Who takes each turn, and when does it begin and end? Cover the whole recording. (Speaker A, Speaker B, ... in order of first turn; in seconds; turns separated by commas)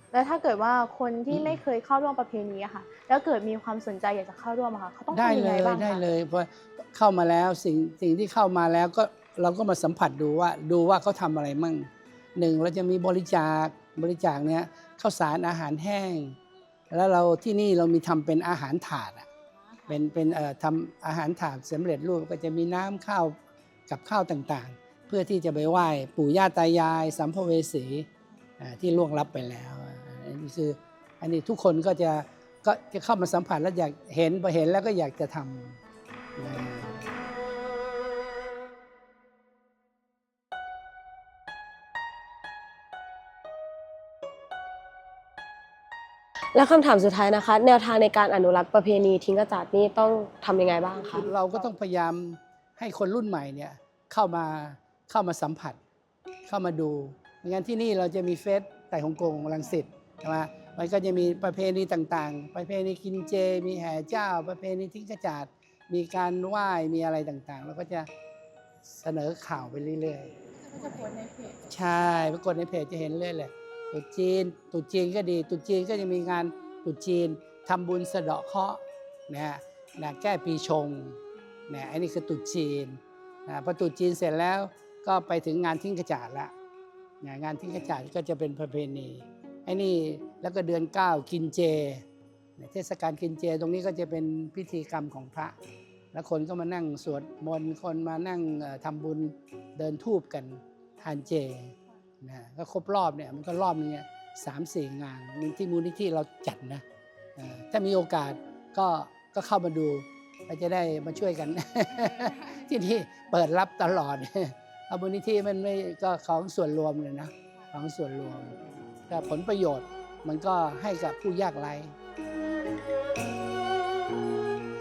Speaker A: 0.1-6.0, Speaker B: 1.3-1.6, Speaker B: 5.1-16.4, Speaker B: 16.9-19.3, Speaker B: 19.9-23.4, Speaker B: 23.9-28.1, Speaker B: 28.6-35.8, Speaker B: 36.4-37.0, Speaker C: 46.5-51.3, Speaker B: 51.1-55.8, Speaker B: 56.5-68.1, Speaker B: 68.9-71.0, Speaker A: 71.0-71.5, Speaker B: 71.7-86.5, Speaker B: 87.2-92.0, Speaker B: 92.6-95.5, Speaker B: 96.1-106.8, Speaker B: 107.4-121.9